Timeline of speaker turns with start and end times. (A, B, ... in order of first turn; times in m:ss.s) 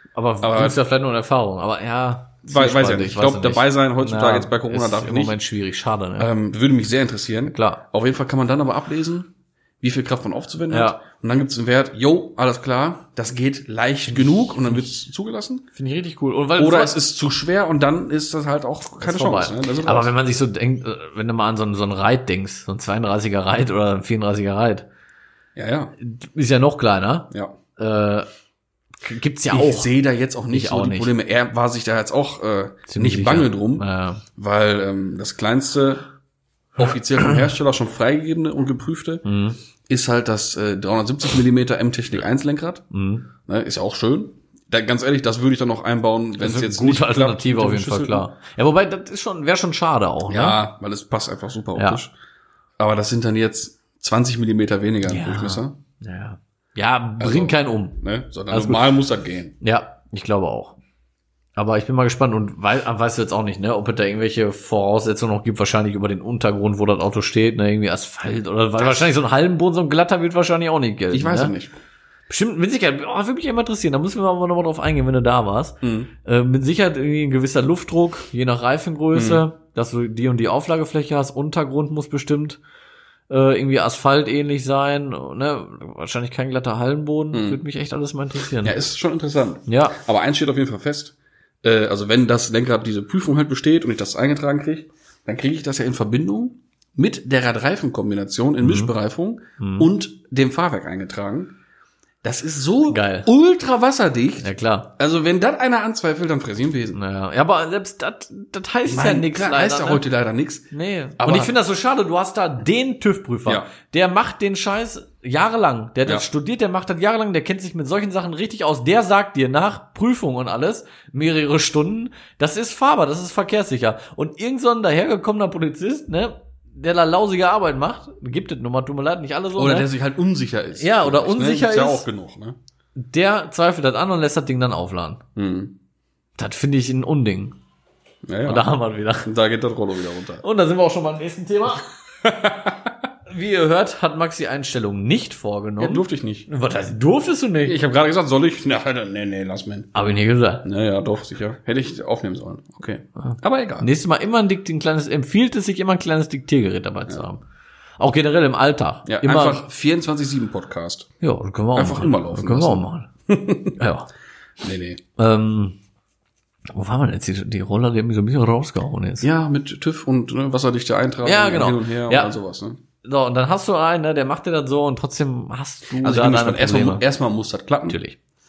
0:00.1-0:06.3 A
0:00.4-0:00.8 B
0:02.4-0:05.4 B
0:06.2-0:09.3 B
0:07.5-0:07.8 A
0:09.8-0:15.6 B
0:10.7-0:11.0 A
0:15.7-0:17.0 A
0:16.6-0:20.1 B
0:19.0-0:24.9 A
0:25.6-0:25.9 B
0:26.0-0:28.3 A
0:29.0-0:29.9 A
0:29.5-0:36.0 B
0:30.5-0:31.1 A
0:32.9-0:34.2 A
0:36.8-0:39.2 B
0:39.2-0:39.6 A
0:39.9-0:42.8 B
0:42.9-0:43.2 A
0:43.4-0:48.2 B
0:46.4-0:50.6 A
0:50.3-0:52.1 B
0:51.8-0:52.0 A
0:52.8-0:55.7 B
0:55.0-0:58.0 A
0:57.2-0:59.6 B
0:58.5-0:59.0 A
0:59.6-1:00.8 A
1:01.6-1:11.5 A
1:11.1-1:11.8 B
1:12.3-1:22.6 A
1:15.8-1:16.1 B
1:19.1-1:19.4 B
1:23.3-1:28.8 A
1:27.3-1:27.6 B
1:28.6-1:41.5 B
1:29.7-1:30.0 A
1:38.6-1:38.9 A
1:39.6-1:39.9 A
1:42.2-1:47.0 B
1:42.9-1:43.3 A
1:44.4-1:44.9 A
1:46.9-1:50.0 A
1:48.9-1:51.6 B
1:50.7-2:09.9 A
2:09.5-2:12.6 B
2:10.8-2:12.0 A
2:13.0-2:15.2 A
2:15.4-2:15.7 B
2:16.4-2:17.6 A
2:18.2-2:18.7 B
2:18.4-2:19.3 A
2:19.2-2:20.4 B
2:20.4-2:21.9 A
2:22.2-2:22.9 B
2:23.3-2:27.8 A
2:25.8-2:26.5 B
2:27.6-2:29.9 B
2:29.9-2:30.6 A
2:30.6-2:33.9 B
2:33.2-2:37.4 A
2:38.0-2:39.6 A
2:39.0-2:41.1 B
2:41.2-2:43.1 A
2:41.7-2:43.8 B
2:43.8-2:44.1 A
2:44.6-2:45.0 B
2:45.2-2:45.8 A
2:46.7-2:49.3 A
2:49.2-2:52.8 B
2:51.2-2:52.3 A
2:53.0-2:57.0 A
2:56.0-2:58.0 B
2:57.9-2:58.2 A